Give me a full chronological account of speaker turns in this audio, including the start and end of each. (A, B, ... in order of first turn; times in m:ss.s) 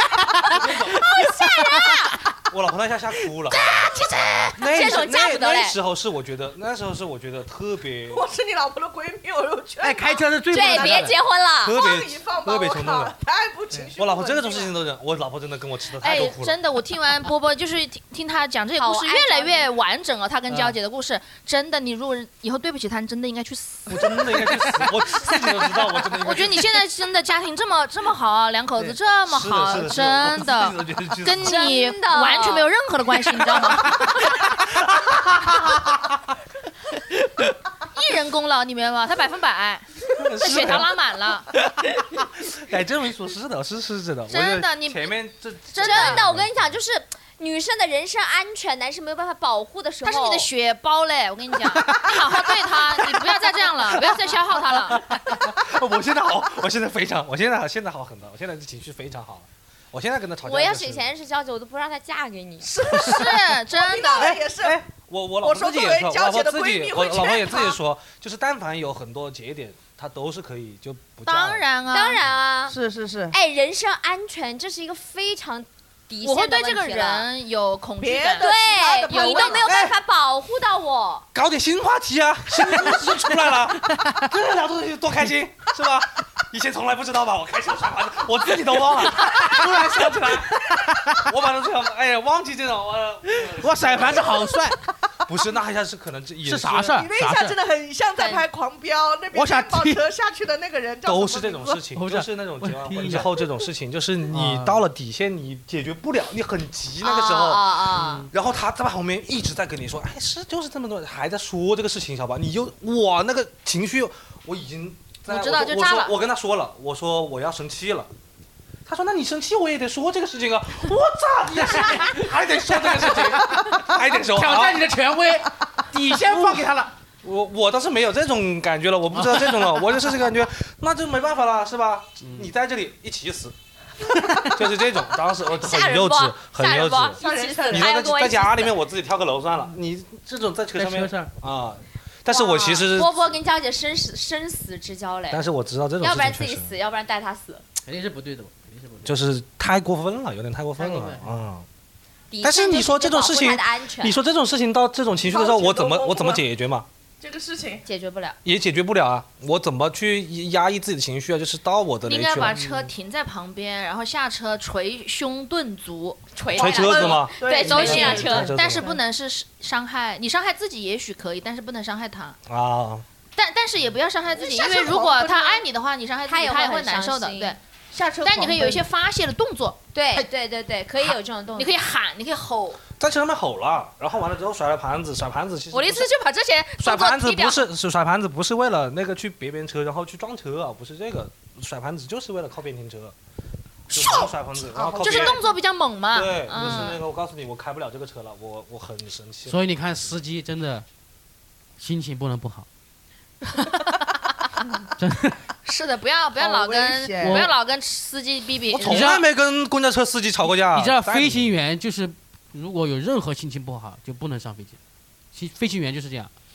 0:00.2-0:02.3 A
0:00.5-0:01.0 B
0:01.2-0:02.0 C
0:02.5-0:04.0 B
0:03.5-0:05.8 C
0:03.9-0:04.6 A
0:04.5-0:08.2 B
0:08.1-0:11.0 D
0:09.8-0:11.2 A
0:10.5-0:11.8 C
0:11.6-0:13.1 B
0:11.7-0:14.8 D
0:14.0-0:16.6 B
0:16.0-0:24.5 E
0:18.8-0:19.7 C
0:23.9-0:26.8 B
0:26.2-0:34.2 E
0:29.3-0:31.7 B
0:31.4-0:32.7 C
0:34.5-0:35.9 B
0:37.8-0:41.5 E
0:40.1-0:40.9 B
0:42.1-0:46.7 B
0:44.3-0:45.1 E
0:45.7-0:46.2 E
0:45.8-0:50.5 C
0:50.0-0:55.0 E
0:54.9-1:01.1 B
1:00.4-1:03.0 C
1:02.6-1:04.8 D
1:02.9-1:04.4 E
1:04.2-1:11.6 B
1:05.4-1:07.8 D
1:11.3-1:12.2 E
1:11.9-1:12.8 C
1:12.7-1:13.4 D
1:13.3-1:17.3 C
1:16.2-1:19.7 E
1:18.0-1:19.8 D
1:18.4-1:21.3 C
1:19.6-1:20.0 B
1:21.3-1:34.5 B
1:22.6-1:24.3 A
1:29.2-1:30.0 A
1:30.6-1:31.3 A
1:33.3-1:34.9 A
1:35.3-1:37.1 B
1:36.4-1:37.6 A
1:36.9-1:41.9 D
1:38.2-1:38.5 C
1:39.3-1:40.0 A
1:41.0-1:58.1 B
1:41.9-1:43.5 A
1:44.3-1:44.8 A
1:47.0-1:48.3 C
1:47.9-1:48.3 A
1:55.3-1:56.2 E
1:58.9-2:04.9 B
2:01.5-2:06.9 A
2:06.1-2:06.7 B
2:07.2-2:13.6 B
2:09.1-2:10.1 A
2:12.2-2:12.5 A
2:14.1-2:14.6 A
2:14.4-2:23.3 B
2:15.6-2:18.8 C
2:17.2-2:17.9 D
2:20.8-2:21.3 A
2:22.3-2:25.4 C
2:25.3-2:26.7 B
2:26.0-2:27.6 C
2:27.8-2:29.2 A
2:29.0-2:31.7 B
2:30.8-2:31.2 A
2:32.3-2:34.2 C
2:32.4-2:36.9 B
2:35.2-2:36.4 D
2:37.2-2:37.8 D
2:37.9-2:38.4 C
2:38.4-2:42.6 B
2:42.0-2:46.2 E
2:42.5-2:42.9 A
2:46.4-2:48.6 C
2:46.5-2:49.0 D
2:46.6-2:48.9 B
2:47.6-2:52.4 E
2:52.5-2:53.0 B
2:53.4-2:57.6 E
2:54.3-2:55.6 D
2:56.3-2:57.6 C
2:57.9-2:58.8 D
2:58.2-3:00.3 E
2:59.9-3:01.8 C
3:01.0-3:02.8 E
3:03.0-3:06.1 B
3:05.7-3:07.7 E
3:06.8-3:13.2 B
3:13.9-3:15.4 B
3:14.0-3:15.5 D
3:15.0-3:17.0 E
3:16.1-3:19.6 B
3:19.5-3:20.8 A
3:21.8-3:22.7 A
3:23.5-3:24.6 E
3:25.0-3:25.4 A
3:25.6-3:29.2 E
3:26.4-3:27.5 D
3:27.2-3:27.5 A
3:28.7-3:31.5 B
3:28.8-3:29.2 A
3:30.7-3:34.8 A
3:35.3-3:36.3 A